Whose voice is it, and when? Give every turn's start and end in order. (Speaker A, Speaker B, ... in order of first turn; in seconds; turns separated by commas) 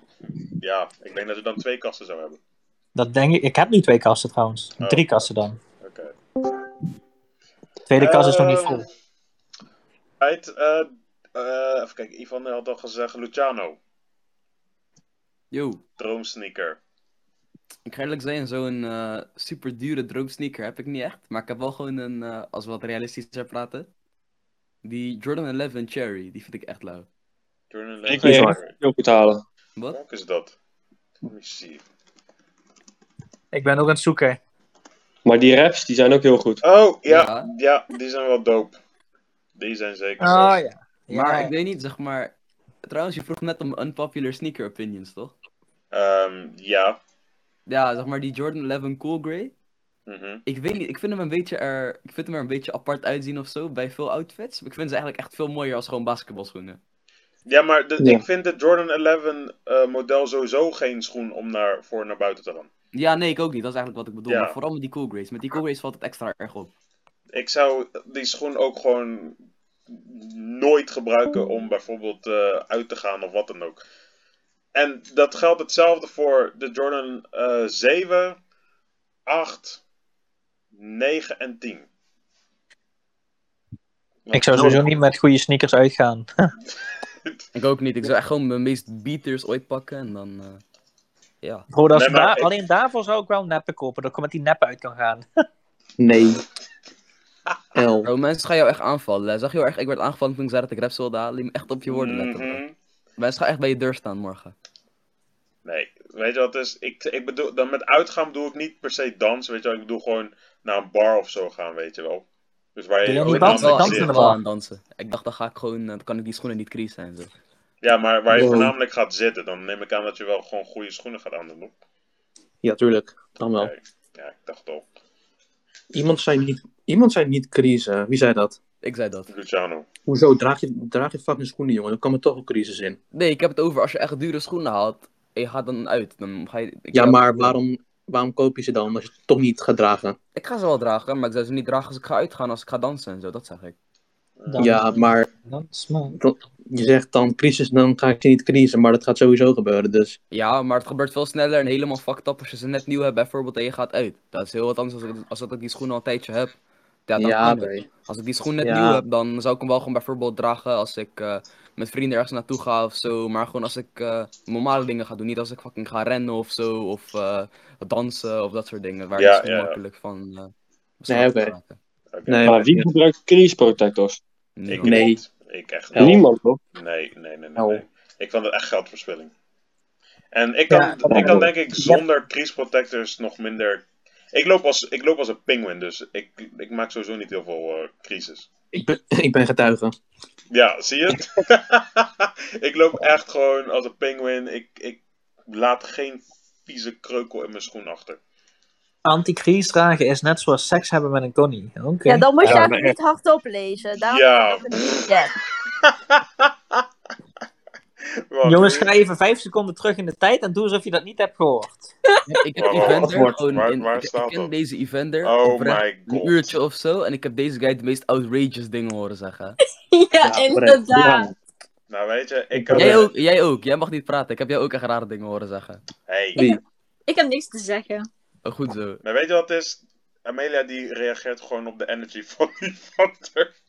Speaker A: 0.6-2.4, Speaker B: 2.9-5.6, Speaker A: 4.8-5.2, Speaker A: 5.8-6.1, Speaker B: 7.9-8.8, Speaker A: 8.0-8.8, Speaker A: 10.2-13.8, Speaker C: 15.5-15.8, Speaker A: 16.0-16.8, Speaker C: 17.9-23.9, Speaker C: 24.8-27.1, Speaker A: 27.7-28.7, Speaker D: 28.1-29.4, Speaker E: 28.2-28.5, Speaker A: 29.9-30.5, Speaker A: 31.2-31.8, Speaker B: 33.5-34.4, Speaker D: 35.2-36.6, Speaker A: 36.6-38.8, Speaker C: 37.1-37.5, Speaker A: 39.6-40.6, Speaker B: 40.2-41.5, Speaker C: 41.1-42.3, Speaker C: 42.8-45.3, Speaker A: 45.9-47.0, Speaker C: 47.7-49.5, Speaker A: 50.1-50.4, Speaker C: 50.5-56.8, Speaker A: 57.5-62.7, Speaker C: 62.9-66.7, Speaker A: 64.3-64.5, Speaker A: 67.3-69.3, Speaker A: 69.9-73.8, Speaker A: 74.7-78.4, Speaker A: 79.3-79.8, Speaker A: 80.7-81.9, Speaker A: 84.2-84.8, Speaker B: 84.3-86.5, Speaker C: 87.5-90.6, Speaker C: 91.4-91.7, Speaker B: 91.7-95.2, Speaker A: 91.9-92.5, Speaker E: 96.0-96.4, Speaker E: 97.7-98.1, Speaker C: 98.0-102.6, Speaker A: 101.9-102.7, Speaker C: 103.2-104.5, Speaker A: 105.6-112.2, Speaker A: 112.8-114.3, Speaker B: 113.0-114.4, Speaker C: 113.2-117.3, Speaker A: 117.8-121.7, Speaker E: 118.3-118.7, Speaker E: 122.6-123.7, Speaker A: 123.5-124.8, Speaker E: 125.9-128.6, Speaker C: 128.8-129.3, Speaker A: 129.3-129.8, Speaker E: 130.1-133.0, Speaker C: 133.1-137.6, Speaker E: 136.9-140.2, Speaker C: 140.3-143.7, Speaker A: 144.4-144.7, Speaker B: 144.5-146.2, Speaker E: 144.6-145.3, Speaker E: 146.1-150.2, Speaker C: 150.3-156.5, Speaker C: 157.1-171.8, Speaker E: 157.2-157.9, Speaker E: 158.6-159.0, Speaker A: 169.2-169.8, Speaker E: 171.1-171.5, Speaker A: 172.1-172.4, Speaker E: 172.3-172.9, Speaker D: 172.4-174.2, Speaker C: 174.6-175.1, Speaker A: 174.7-179.3, Speaker E: 174.8-175.2, Speaker E: 175.9-176.2, Speaker D: 176.0-176.6, Speaker E: 177.6-177.8, Speaker A: 180.3-188.5, Speaker B: 180.7-181.0, Speaker D: 181.0-181.5, Speaker E: 181.1-181.4, Speaker E: 188.7-189.9, Speaker A: 190.5-198.2, Speaker B: 199.0-202.7, Speaker F: 202.0-205.3, Speaker A: 204.0-205.2, Speaker A: 205.7-206.8, Speaker A: 208.3-208.9, Speaker B: 208.4-211.9, Speaker C: 212.3-219.6, Speaker A: 212.6-214.5, Speaker E: 212.8-213.4, Speaker A: 215.2-216.5, Speaker F: 219.9-221.3, Speaker E: 220.3-220.8, Speaker D: 220.9-221.3, Speaker A: 221.9-223.1, Speaker E: 222.6-223.0, Speaker C: 222.7-225.8, Speaker A: 226.1-226.5, Speaker E: 226.3-226.6, Speaker F: 227.1-228.1, Speaker C: 228.4-229.0, Speaker A: 229.0-233.5